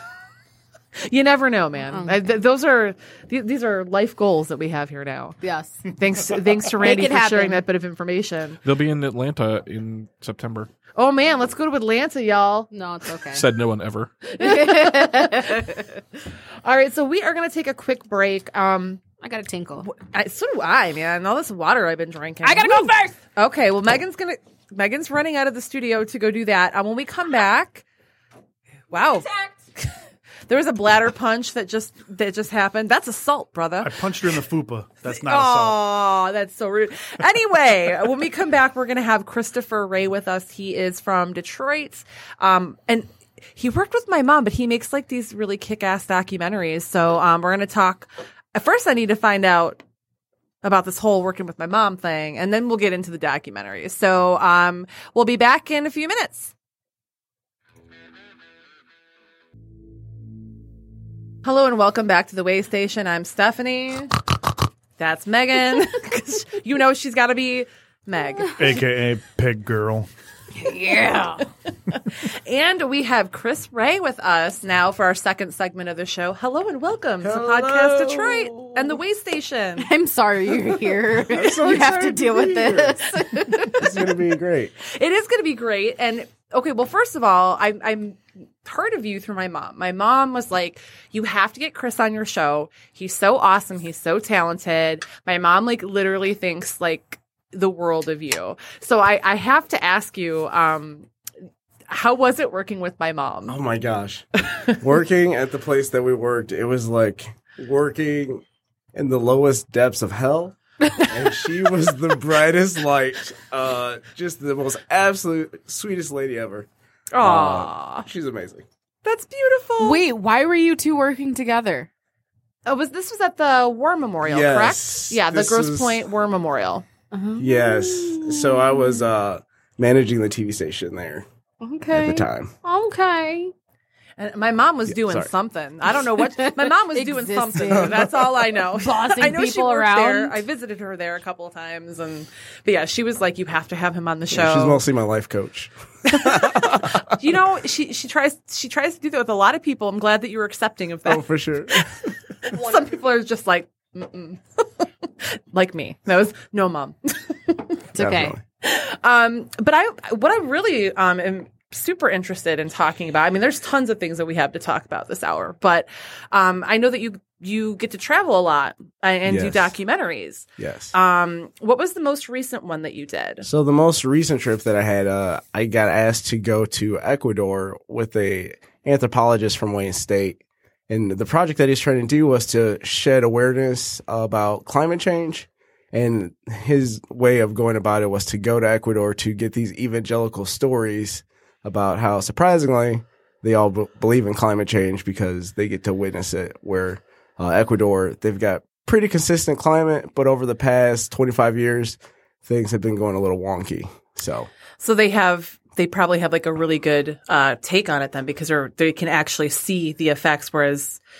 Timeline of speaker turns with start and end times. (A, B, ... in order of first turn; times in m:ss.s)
0:01.0-0:08.6 A
0:01.9-0:02.2 B
0:05.4-0:05.8 B
0:06.8-0:07.6 B
0:08.6-0:10.7 C
0:11.0-0:12.7 A
0:12.7-0:13.4 B
0:13.3-0:14.1 C
0:14.3-0:15.7 A
0:14.4-0:15.9 B
0:16.6-0:19.0 A
0:19.2-0:19.9 B
0:19.8-0:27.8 A
0:22.4-0:23.2 B
0:28.9-0:29.3 A
0:30.5-0:34.0 A
0:33.8-0:35.8 D
0:35.1-0:49.8 A
0:50.6-0:56.5 A
1:01.4-1:04.1 A
1:05.0-1:08.7 A
1:08.6-1:10.1 D
1:10.6-1:11.4 B
1:12.3-1:19.9 A
1:17.2-1:18.9 E
1:19.8-1:24.0 B
1:21.3-1:23.0 E
1:21.3-1:22.2 A
1:23.8-1:24.7 E
1:24.8-1:41.1 A
1:41.9-1:43.6 A
1:43.5-1:44.2 E
1:44.8-1:48.4 E
1:48.9-1:50.6 E
1:51.1-1:56.7 E
1:57.1-1:58.1 A
1:57.2-1:58.6 E
1:59.0-2:00.0 A
1:59.8-2:01.9 B
2:02.6-2:06.8 A
2:04.2-2:06.0 E
2:07.1-2:09.0 B
2:07.4-2:11.2 E
2:11.6-2:13.5 B
2:11.9-2:12.5 E
2:14.2-2:24.8 A
2:14.9-2:15.3 E
2:16.4-2:18.0 B
2:18.7-2:20.4 B
2:24.3-2:26.9 E
2:26.2-2:31.3 A
2:31.0-2:32.1 E
2:32.5-2:34.6 A
2:35.5-2:37.7 A
2:37.9-2:38.4 B
2:38.0-2:38.4 E
2:38.6-2:53.5 A
2:49.2-2:49.7 E
2:50.6-2:50.9 E
2:53.4-3:24.5 E
3:24.8-3:31.0 A